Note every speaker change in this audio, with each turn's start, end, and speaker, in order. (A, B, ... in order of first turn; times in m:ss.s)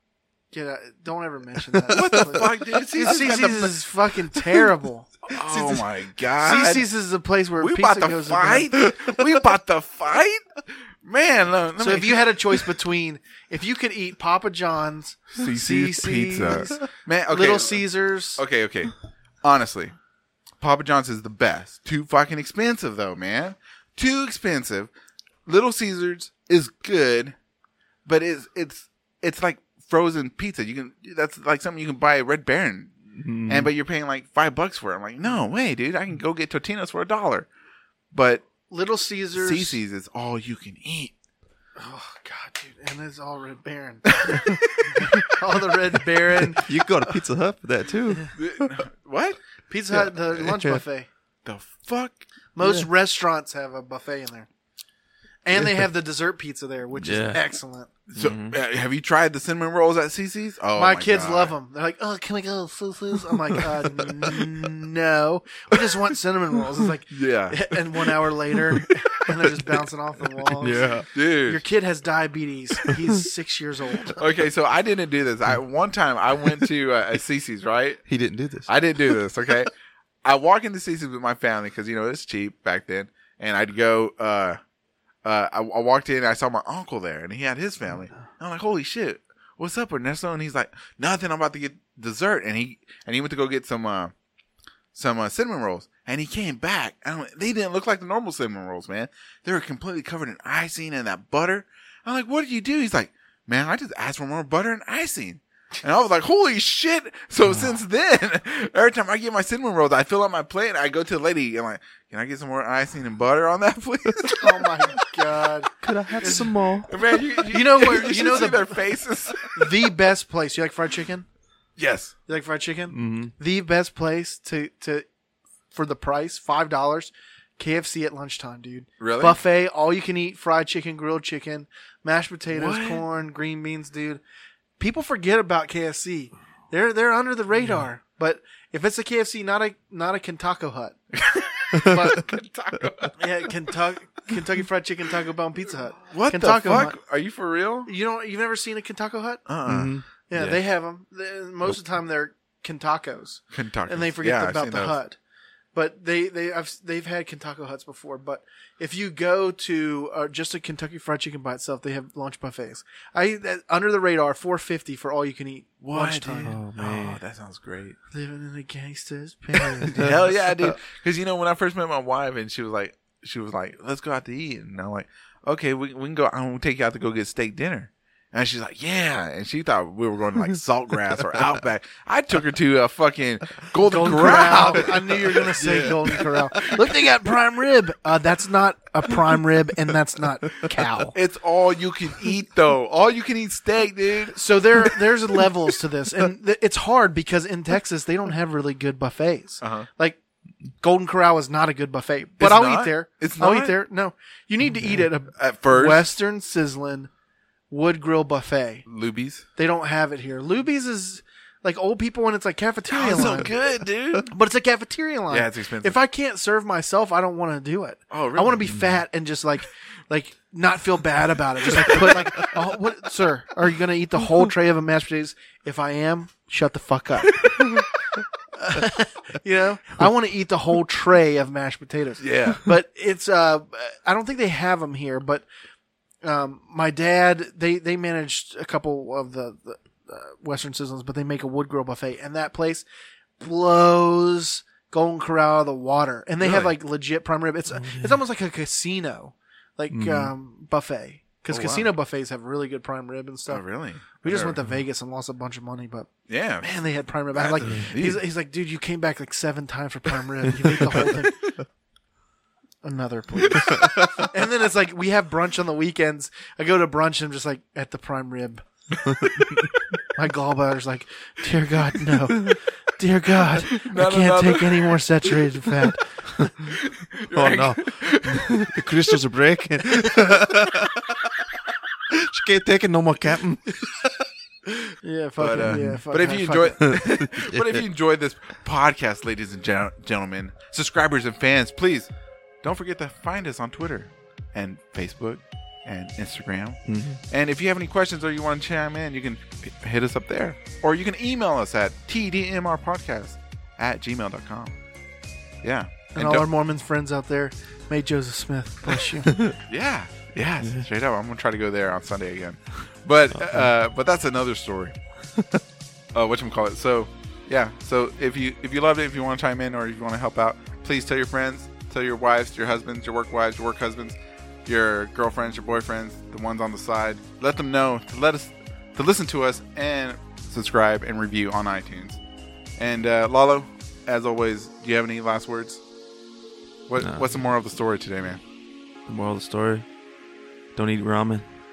0:00.5-0:05.8 A
0:01.9-0:03.8 B
0:02.0-0:02.2 C
0:05.3-0:06.8 B
0:06.4-0:08.8 A
0:07.6-0:10.5 B
0:11.0-0:12.6 B
0:11.8-0:18.4 A
0:15.3-0:17.8 B
0:18.4-0:19.9 B
0:20.6-0:24.9 B
0:25.5-0:27.4 B
0:28.1-0:32.9 B
0:33.1-0:33.7 C
0:33.5-0:37.5 B
0:38.1-0:38.5 B
0:38.7-0:39.8 A
0:39.3-0:41.1 B
0:41.8-0:47.2 A
0:44.2-0:44.6 B
0:46.6-0:48.8 C
0:48.3-0:49.4 B
0:49.7-0:51.1 A
0:49.9-0:50.8 C
0:51.4-0:52.2 B
0:52.6-0:54.5 A
0:52.6-0:52.9 C
0:55.4-0:57.9 A
0:55.6-0:55.9 C
0:57.0-0:57.4 C
0:58.1-1:01.5 B
0:58.2-0:58.6 C
1:00.8-1:14.2 A
1:03.4-1:04.6 C
1:07.1-1:08.3 B
1:10.6-1:11.1 C
1:11.1-1:11.6 B
1:12.8-1:13.1 C
1:14.2-1:18.0 B
1:18.1-1:19.2 C
1:18.7-1:19.7 B
1:20.2-1:24.6 B
1:25.2-1:34.1 B
1:34.9-1:54.8 B
1:54.4-1:56.5 A
1:55.8-1:56.9 C
1:56.9-1:59.6 B
1:57.5-1:58.8 A
1:59.4-2:01.3 A
2:01.8-2:02.1 B
2:02.3-2:05.1 A
2:02.9-2:03.3 C
2:05.7-2:14.2 A
2:09.0-2:09.4 B
2:12.5-2:13.0 B
2:14.8-2:21.0 A
2:21.2-2:23.2 B
2:21.7-2:22.2 C
2:21.8-2:22.3 A
2:23.2-2:27.0 A
2:26.1-2:27.9 B
2:27.9-2:29.5 A
2:29.5-2:30.6 B
2:29.7-2:30.5 C
2:30.3-2:35.2 A
2:33.5-2:35.0 B
2:35.8-2:46.6 A
2:45.8-2:48.0 B
2:46.4-2:47.2 C
2:48.1-2:50.1 A
2:49.5-2:50.2 C
2:49.9-3:05.4 B
3:03.9-3:11.2 A
3:04.1-3:07.0 C
3:09.1-3:09.4 C
3:11.2-3:14.4 B
3:14.3-3:20.2 A
3:19.6-3:19.9 B
3:20.8-3:27.1 A
3:22.4-3:23.8 B
3:24.8-3:25.0 C
3:25.3-3:26.2 B
3:27.7-3:28.8 A
3:28.9-3:29.4 B
3:29.6-3:33.5 A
3:32.9-3:34.3 B
3:34.3-3:47.8 A
3:35.3-3:36.0 B
3:38.1-3:38.6 B
3:38.7-3:39.0 C
3:41.7-3:42.5 C
3:47.6-3:47.8 C
3:48.6-3:55.4 A
3:52.2-3:52.6 B
3:56.2-4:02.8 A
4:03.4-4:13.6 A
4:06.4-4:06.7 B
4:07.7-4:08.2 C
4:09.9-4:10.3 C
4:11.5-4:11.9 B
4:13.5-4:14.6 B
4:14.2-4:21.6 A
4:16.3-4:16.7 B
4:17.3-4:18.2 B
4:20.8-4:21.2 C
4:22.8-4:28.6 A
4:23.6-4:24.3 C
4:29.0-4:29.7 C
4:30.1-4:36.4 A
4:32.0-4:32.6 C
4:33.7-4:35.0 B
4:36.3-4:36.8 C
4:36.7-4:38.7 B
4:37.3-4:41.3 C
4:42.1-4:44.9 C
4:45.0-4:46.9 A
4:45.4-4:52.1 B
4:45.6-4:46.0 C
4:46.8-4:47.8 C
4:52.6-5:04.8 B
4:56.9-4:57.2 C
5:05.6-5:06.5 B
5:06.2-5:09.4 A
5:09.3-5:09.6 C
5:09.6-5:15.0 B
5:15.4-5:15.6 C
5:16.1-5:32.2 B
5:32.8-5:35.8 B
5:36.9-5:38.4 B
5:39.1-5:39.9 C
5:40.8-5:41.5 C